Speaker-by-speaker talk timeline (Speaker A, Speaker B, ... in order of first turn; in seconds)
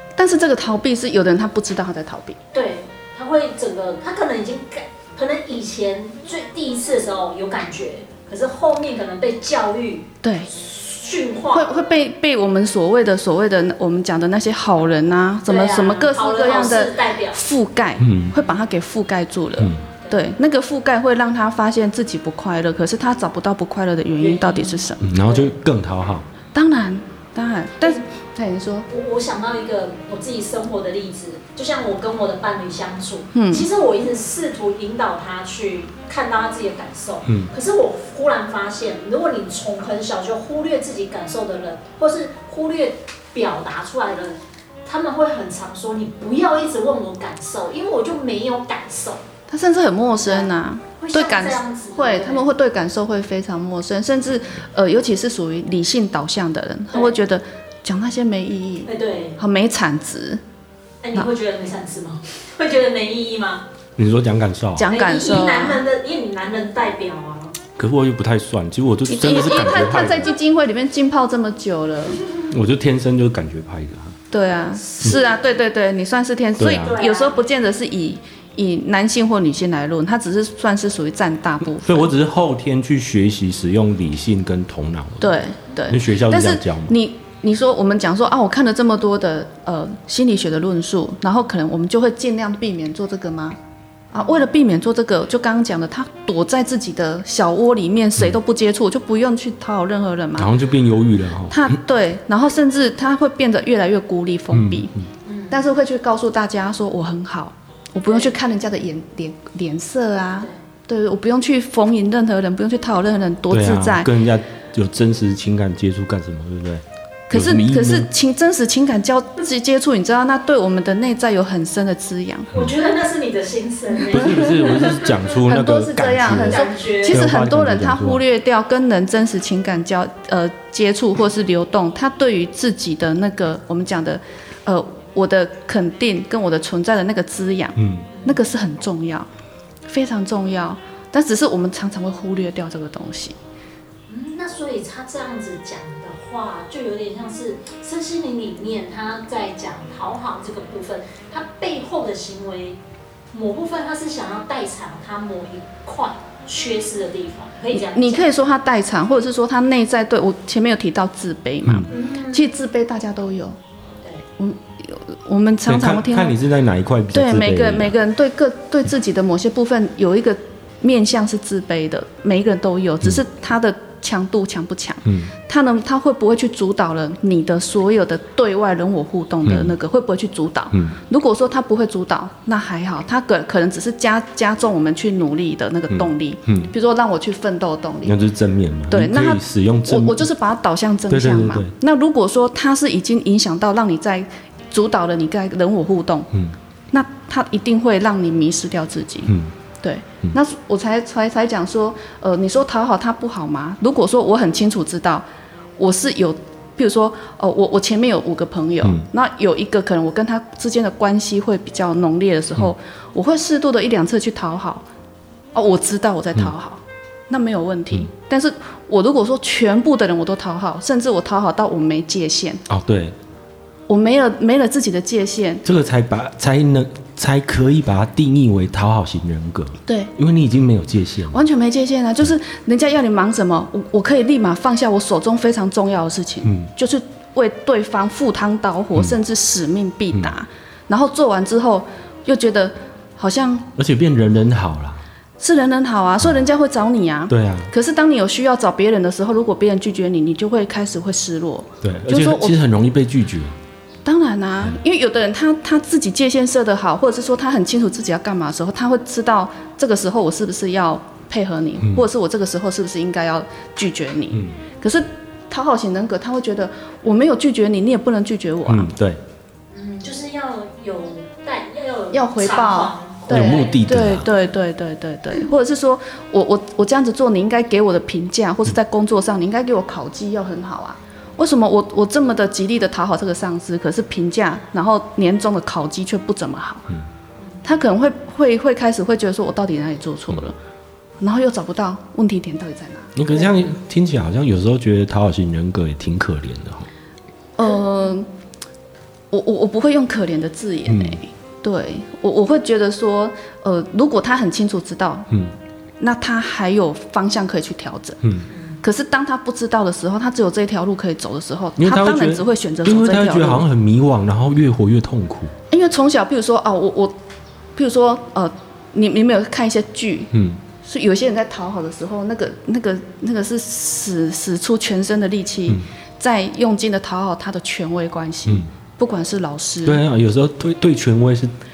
Speaker A: 0.2-2.4, 10.2-10.5, 11.5-25.0, 26.5-28.9, 33.3-33.7, 49.5-60.4, 64.8-65.8, 69.1-72.2, 74.3-82.1, 85.2-93.6, 94.1-100.5, 101.5-104.9, 105.5-114.1, 117.3-122.6, 125.4-139.3, 139.9-143.3, 157.7-163.6, 164.4-166.4, 167.1-188.2, 188.9-196.3, 196.9-205.2, 205.8-214.8, 215.5-222.6, 223.9-225.6, 229.9-230.1, 231.3-243.7, 245.4-252.6, 254.0-268.9, 272.1-286.9, 287.6-290.6, 291.2-293.5, 297.6-298.3, 299.3-305.3, 306.0-308.2, 308.8-313.6, 315.7-317.1, 317.8-320.3, 320.8-330.0
Speaker B: 2.5-11.8, 15.4-17.4, 24.2-25.5, 28.9-49.2, 50.2-50.5, 51.1-52.5, 56.9-57.2, 58.9-59.4, 61.0-63.6, 64.9-67.5, 75.0-75.3, 76.7-77.4, 105.2-105.6, 122.5-125.2, 126.3-127.2, 138.1-138.4, 144.1-152.8, 153.3-158.2, 161.9-162.5, 269.7-274.3, 287.4-287.7, 308.5-308.8
Speaker C: 18.0-18.3, 19.6-19.8, 25.0-26.2, 37.2-37.5, 64.0-64.9, 67.8-70.3, 72.5-74.2, 76.6-77.0, 81.7-87.0, 100.4-101.8, 104.5-105.1, 113.5-118.1, 124.1-128.2, 137.8-138.1, 161.6-161.9, 165.7-167.9, 175.0-175.3, 179.4-179.7, 180.7-181.0, 185.9-186.7, 188.0-190.2, 191.1-191.7, 199.3-199.5, 222.7-223.2, 225.6-231.4, 236.4-236.7, 243.8-245.0, 247.3-247.7, 251.8-253.6, 268.6-269.2, 273.3-274.3, 293.1-296.9, 300.9-301.2, 311.8-315.5, 320.3-320.6, 329.8-331.5